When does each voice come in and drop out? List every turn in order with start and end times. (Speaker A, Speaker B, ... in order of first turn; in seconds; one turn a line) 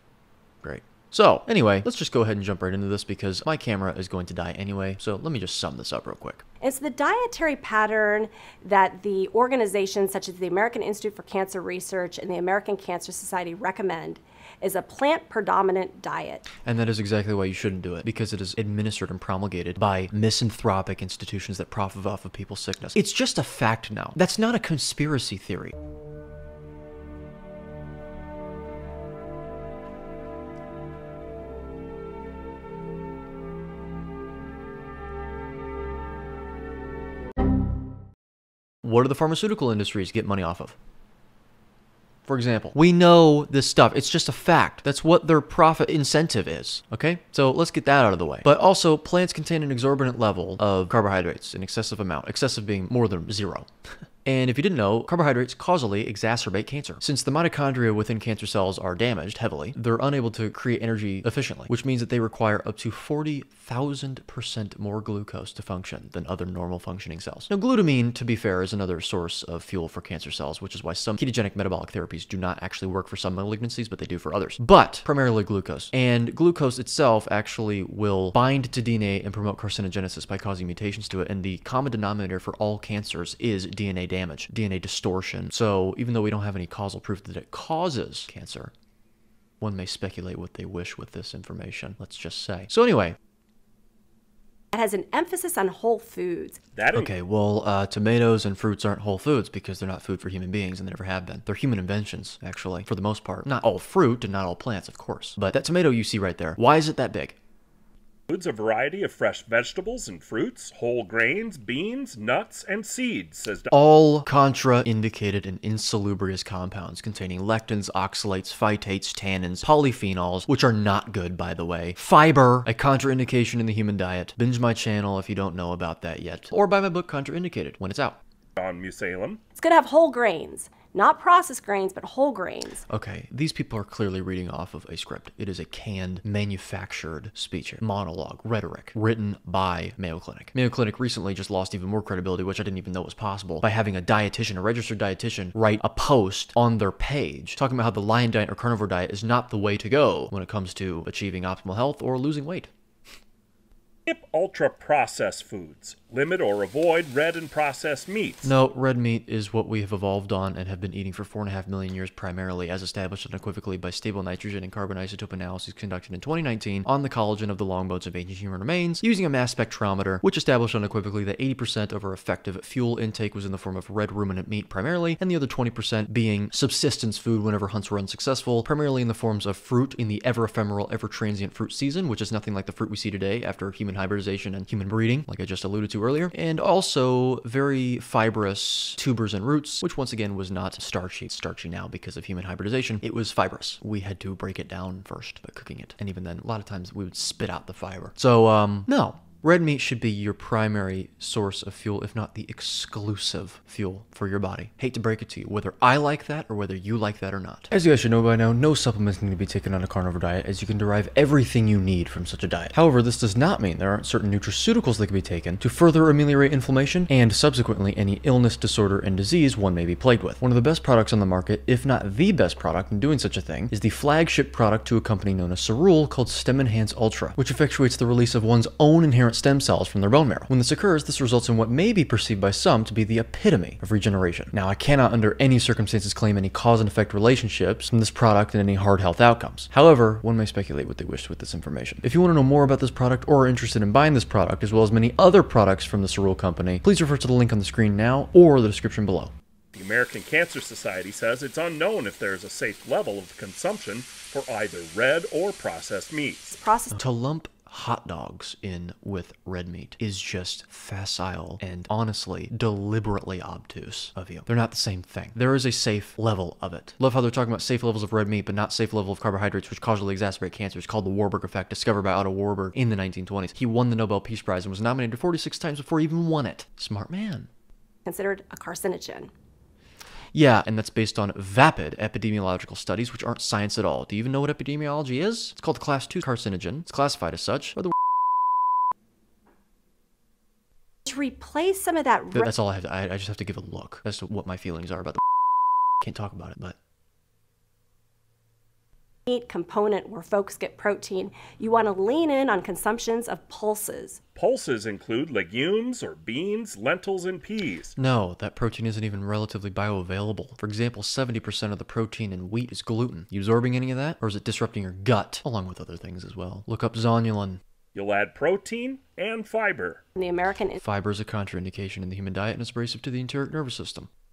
Speaker A: 0.6-6.4
Speaker B: 6.6-16.5
Speaker A: 16.6-25.8
Speaker A: 38.8-40.8
Speaker A: 42.3-53.7
Speaker A: 54.2-88.7
Speaker A: 89.6-93.2
Speaker B: 94.7-96.6
Speaker C: 96.8-97.1
Speaker A: 96.9-107.4
Speaker C: 108.3-113.7
Speaker A: 113.7-128.2
Speaker C: 128.6-129.4
Speaker B: 129.6-132.8
Speaker A: 132.9-152.7
Speaker C: 154.1-158.5
Speaker A: 158.4-249.3
Speaker C: 249.7-256.5
Speaker B: 256.5-257.0
Speaker A: 256.9-277.5
Speaker B: 278.1-279.3
Speaker A: 280.3-287.9
Speaker B: 291.1-292.5
Speaker A: 292.3-295.2
Speaker A: 296.0-296.8
Speaker B: 299.3-304.2
Speaker C: 304.4-307.9
Speaker A: 308.0-317.6
Speaker C: 317.9-320.0
Speaker B: 320.2-320.8
Speaker A: 320.8-324.1